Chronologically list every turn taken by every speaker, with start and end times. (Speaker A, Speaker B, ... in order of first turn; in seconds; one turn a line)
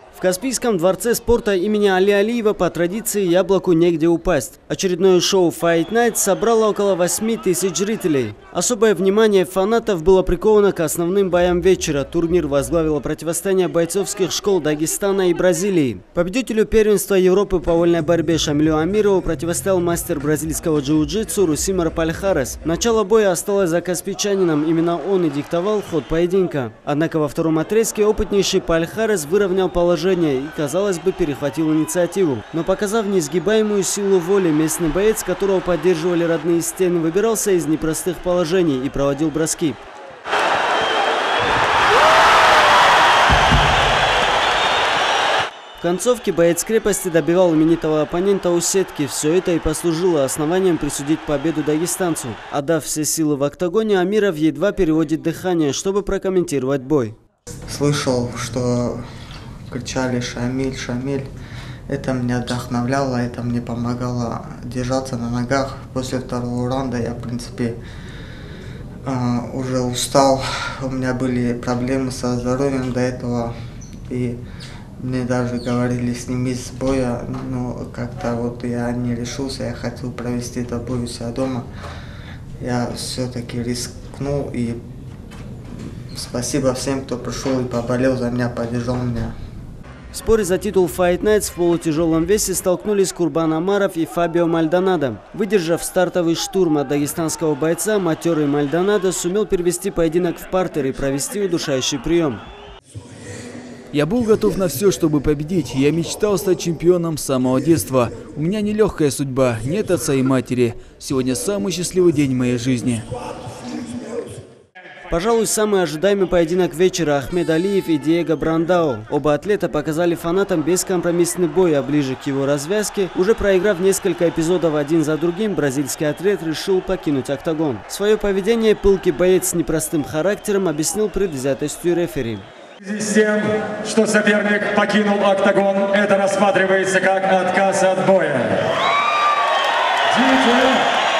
Speaker A: 0.2-39.8
Speaker A: 45.8-57.1
Speaker B: 57.7-59.0
Speaker B: 59.7-61.2
Speaker B: 61.9-67.8
Speaker B: 69.0-73.5
Speaker B: 74.1-74.4
Speaker B: 75.0-81.7
Speaker B: 82.6-84.8
Speaker B: 85.8-89.3
Speaker A: 90.1-102.4
Speaker C: 103.9-113.0
Speaker A: 115.1-132.4
Speaker D: 132.8-138.6
Speaker D: 140.1-140.8